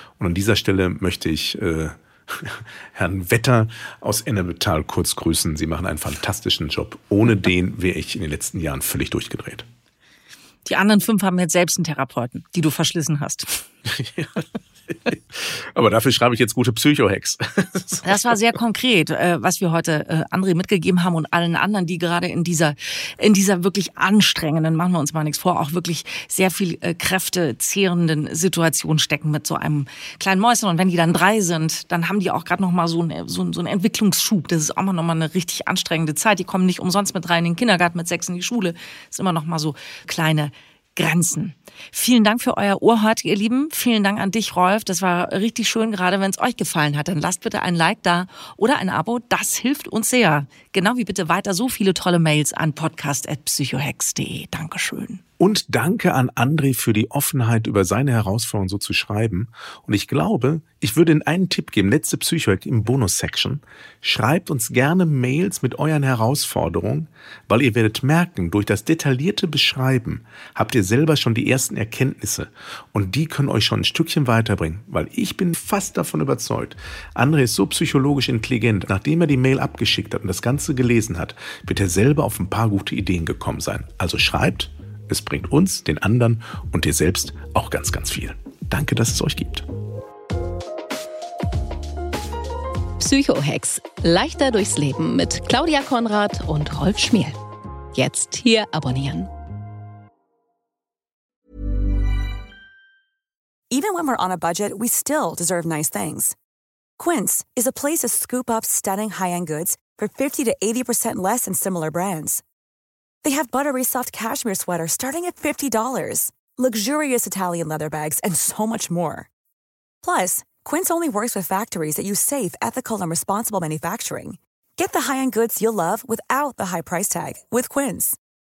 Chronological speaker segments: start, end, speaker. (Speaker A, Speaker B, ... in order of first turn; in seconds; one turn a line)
Speaker A: 0.2-9.7
Speaker B: 10.6-13.6
Speaker A: 13.8-18.4
Speaker B: 18.0-55.2
Speaker A: 55.4-89.7
Speaker C: 93.0-97.4
Speaker C: 97.9-99.3
Speaker D: 103.7-106.3
Speaker D: 107.0-112.4
Speaker D: 113.2-119.3
Speaker D: 120.0-128.2